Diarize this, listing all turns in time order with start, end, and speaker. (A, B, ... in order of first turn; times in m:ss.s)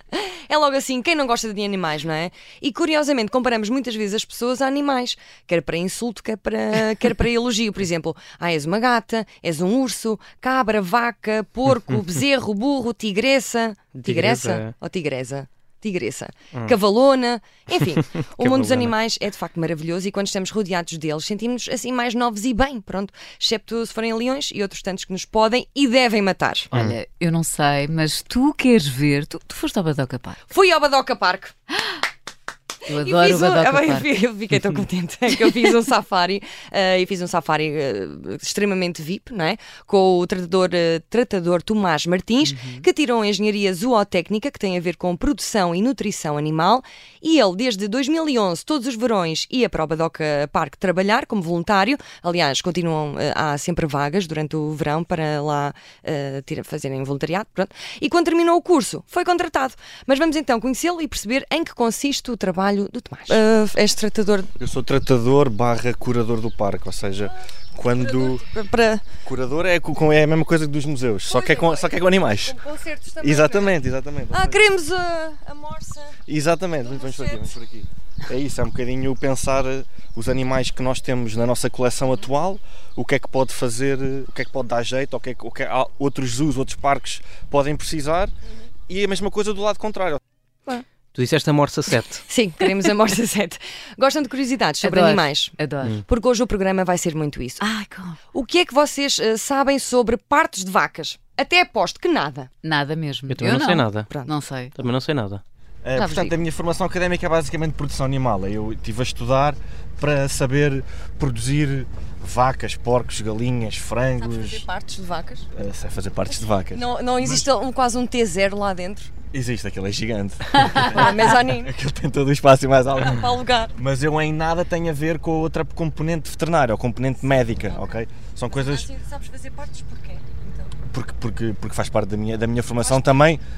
0:00.1-0:26.7 A
0:13.9-0:14.7 B
0:18.2-0:19.0 B
0:26.7-0:27.0 B
0:26.7-0:30.4 C
0:30.5-0:31.5 A
0:32.9-0:34.1 C
0:32.9-1:04.5 A
0:42.4-0:42.9 C
1:04.6-1:08.4 D
1:07.8-1:09.1 A
1:09.2-1:12.6 D
1:11.2-1:13.8 A
1:13.2-1:14.6 D
1:14.3-1:16.2 A
1:16.3-1:28.3 D
1:16.8-1:17.6 A
1:28.9-1:30.2 D
1:31.1-1:32.2 B
1:32.2-1:37.6 A
1:34.8-1:36.0 C
1:37.6-1:38.2 C
1:38.3-1:42.5 A
1:42.6-1:44.7 C
1:43.3-1:44.1 B
1:44.8-1:45.4 B
1:45.8-1:54.6 D
1:46.0-1:46.3 A
1:54.2-1:55.5 A
1:55.5-1:57.5 D
1:56.7-1:59.1 A
1:59.3-2:08.9 D
2:00.8-2:01.7 A
2:03.0-2:03.8 A
2:07.6-2:07.9 A
2:08.5-2:10.8 A
2:10.9-2:13.4 D
2:12.8-2:13.3 A